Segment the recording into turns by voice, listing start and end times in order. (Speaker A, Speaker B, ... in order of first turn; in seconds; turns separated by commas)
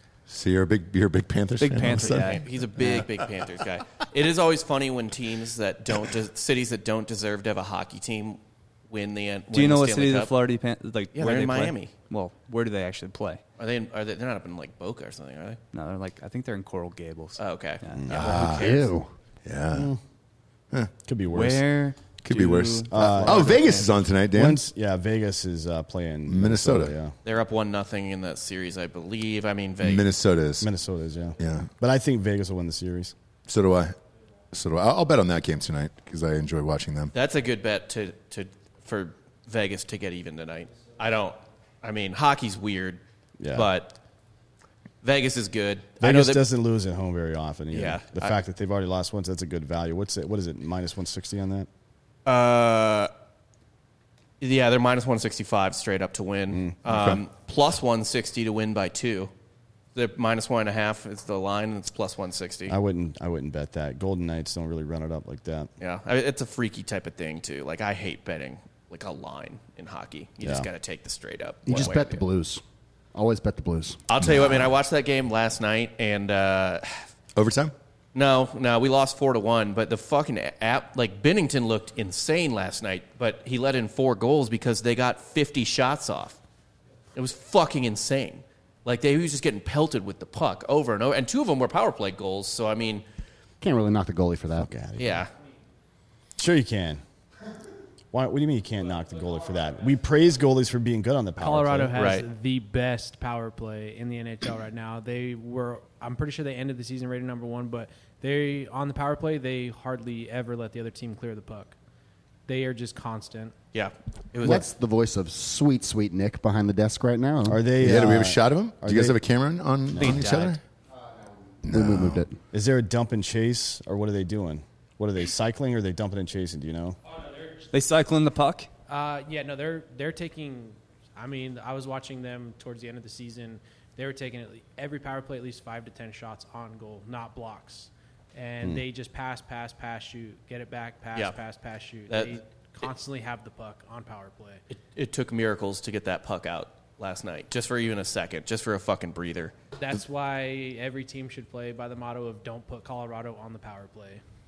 Speaker A: 0.3-3.0, Speaker B: 1.6-2.4, Speaker C: 1.9-10.3, Speaker B: 9.5-13.4, Speaker C: 11.2-11.9, Speaker C: 13.6-15.6, Speaker B: 15.7-18.1, Speaker C: 17.4-18.9, Speaker D: 18.0-18.2, Speaker A: 18.1-18.7, Speaker E: 18.1-19.1, Speaker A: 19.4-19.9, Speaker D: 19.7-20.0, Speaker D: 21.1-21.6, Speaker B: 21.3-23.9, Speaker A: 22.2-24.6, Speaker D: 22.9-23.7, Speaker D: 24.3-27.1, Speaker A: 26.3-26.9, Speaker C: 27.2-30.1, Speaker A: 29.8-30.7, Speaker D: 30.6-33.1, Speaker A: 31.4-31.7, Speaker A: 33.5-34.0, Speaker A: 34.5-37.1, Speaker C: 37.1-43.0, Speaker D: 43.4-43.7, Speaker C: 43.5-44.0, Speaker C: 45.0-46.5, Speaker D: 46.0-51.7, Speaker C: 47.7-48.4, Speaker C: 52.3-53.1, Speaker C: 54.4-59.3, Speaker D: 56.5-56.8, Speaker A: 56.9-57.2, Speaker C: 60.0-62.8, Speaker D: 62.7-65.7, Speaker C: 65.8-72.2, Speaker E: 71.7-72.6, Speaker E: 73.1-74.0, Speaker C: 74.1-77.1, Speaker A: 77.3-77.7, Speaker C: 78.1-86.4, Speaker C: 87.2-93.0, Speaker E: 93.6-94.7, Speaker D: 94.6-95.2, Speaker C: 95.0-95.3, Speaker D: 96.4-97.0, Speaker D: 98.1-101.9, Speaker F: 101.4-111.8, Speaker C: 102.0-102.3, Speaker F: 112.5-113.5, Speaker C: 113.7-114.7, Speaker E: 114.4-117.7, Speaker D: 117.5-119.2, Speaker A: 117.8-120.6, Speaker D: 119.9-120.2, Speaker B: 120.0-120.6, Speaker A: 121.7-122.2, Speaker E: 121.7-122.4, Speaker D: 122.5-127.0, Speaker B: 127.7-128.7, Speaker F: 128.9-144.6, Speaker C: 142.1-142.8, Speaker C: 144.7-149.5, Speaker F: 149.8-154.2